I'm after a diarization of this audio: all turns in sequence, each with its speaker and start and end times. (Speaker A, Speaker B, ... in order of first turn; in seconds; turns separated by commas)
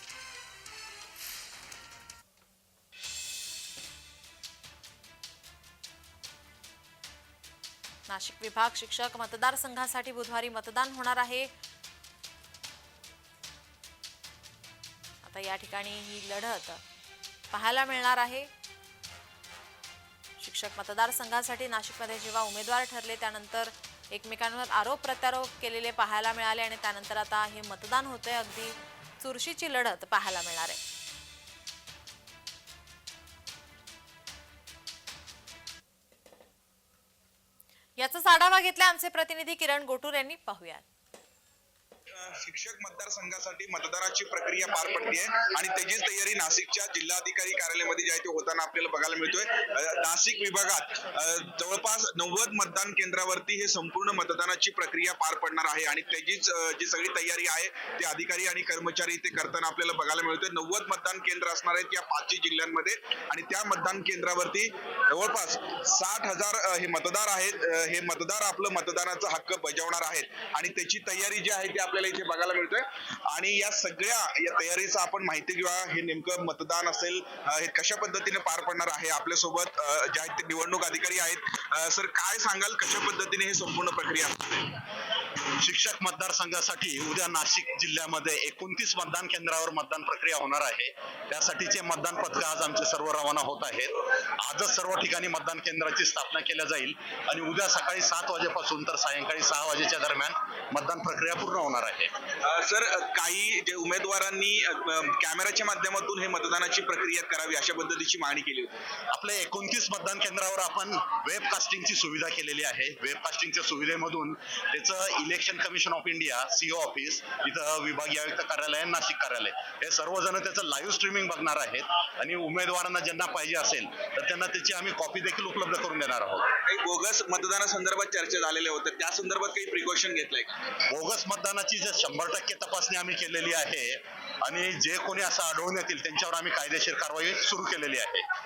Speaker A: 8.1-11.5, Speaker A: 15.2-16.8, Speaker A: 17.5-18.5, Speaker A: 20.4-30.8, Speaker A: 38.0-40.8, Speaker B: 42.1-84.7, Speaker C: 85.5-102.1, Speaker B: 102.5-108.7, Speaker C: 109.1-126.5, Speaker B: 126.7-130.6, Speaker C: 130.9-138.2